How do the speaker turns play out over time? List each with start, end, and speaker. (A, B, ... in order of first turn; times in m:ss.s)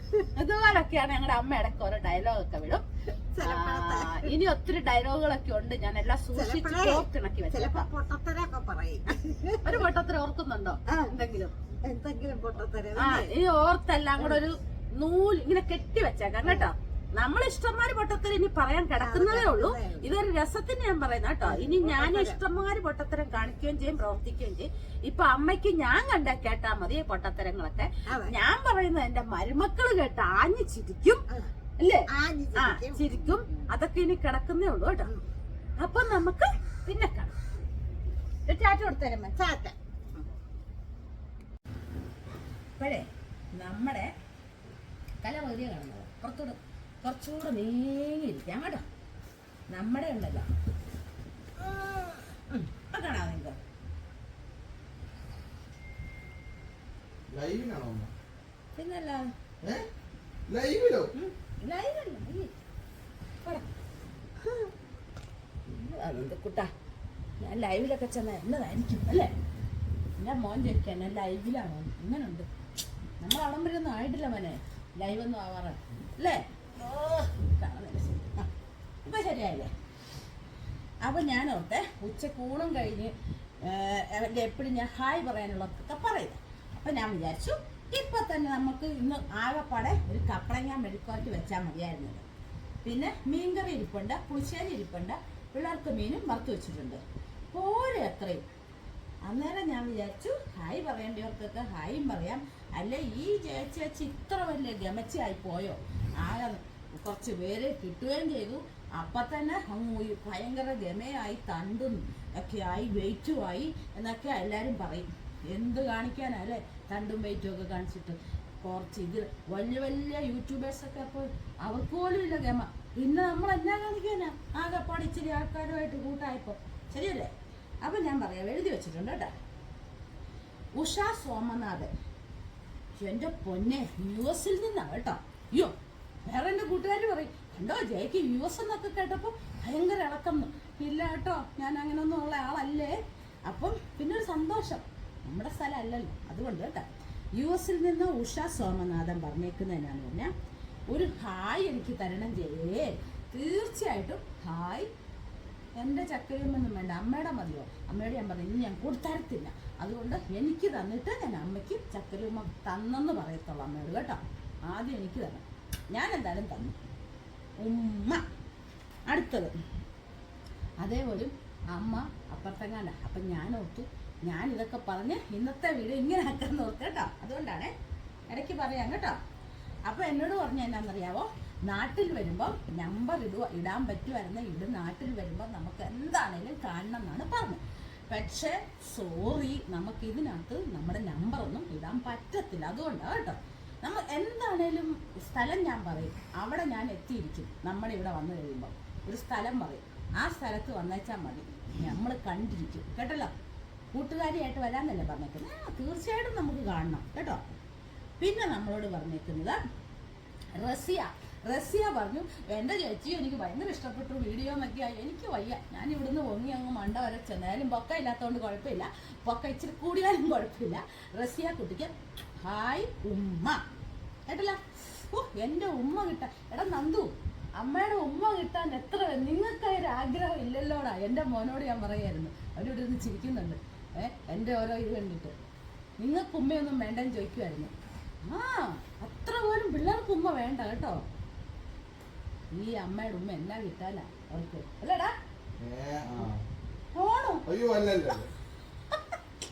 0:00.3-0:02.8 A
0:03.3-0:04.3 B
0:03.4-0:07.9 A
0:06.3-0:09.8 B
0:09.6-0:11.5 A
0:11.8-0:13.3 B
0:12.9-0:31.2 A
0:16.4-0:16.7 B
0:19.0-0:20.1 B
0:21.4-0:22.4 B
0:28.1-0:28.3 B
0:31.8-0:35.1 A
0:32.1-0:33.7 B
0:35.8-0:37.3 A
0:38.5-0:39.4 A
0:39.4-0:40.2 B
0:42.8-0:44.1 A
0:45.2-0:48.8 A
0:49.7-0:50.5 A
0:52.5-0:53.6 A
0:57.3-0:58.1 C
0:58.7-0:59.3 A
1:00.5-1:01.1 C
1:01.1-1:02.5 A
1:05.7-1:06.7 A
1:07.4-1:09.3 A
1:10.2-1:12.5 A
1:13.2-1:18.5 A
1:19.0-1:19.7 A
1:21.0-1:32.2 A
1:32.8-1:38.4 A
1:39.2-2:09.3 A
2:10.8-2:11.9 A
2:13.0-2:15.7 A
2:16.3-2:30.3 A
2:30.9-2:34.9 A
2:35.8-2:46.8 A
2:47.6-2:48.2 A
2:49.1-2:49.5 A
2:50.8-2:57.7 A
2:58.3-2:59.2 A
2:59.8-3:23.3 A
3:23.9-3:27.4 A
3:28.2-3:29.6 A
3:30.5-3:43.6 A
3:44.3-3:55.3 A
3:56.0-3:57.7 A
3:58.2-4:01.0 A
4:02.5-4:05.1 A
4:05.6-4:06.4 C
4:06.9-4:07.4 A
4:07.5-4:08.3 C
4:08.9-4:09.2 A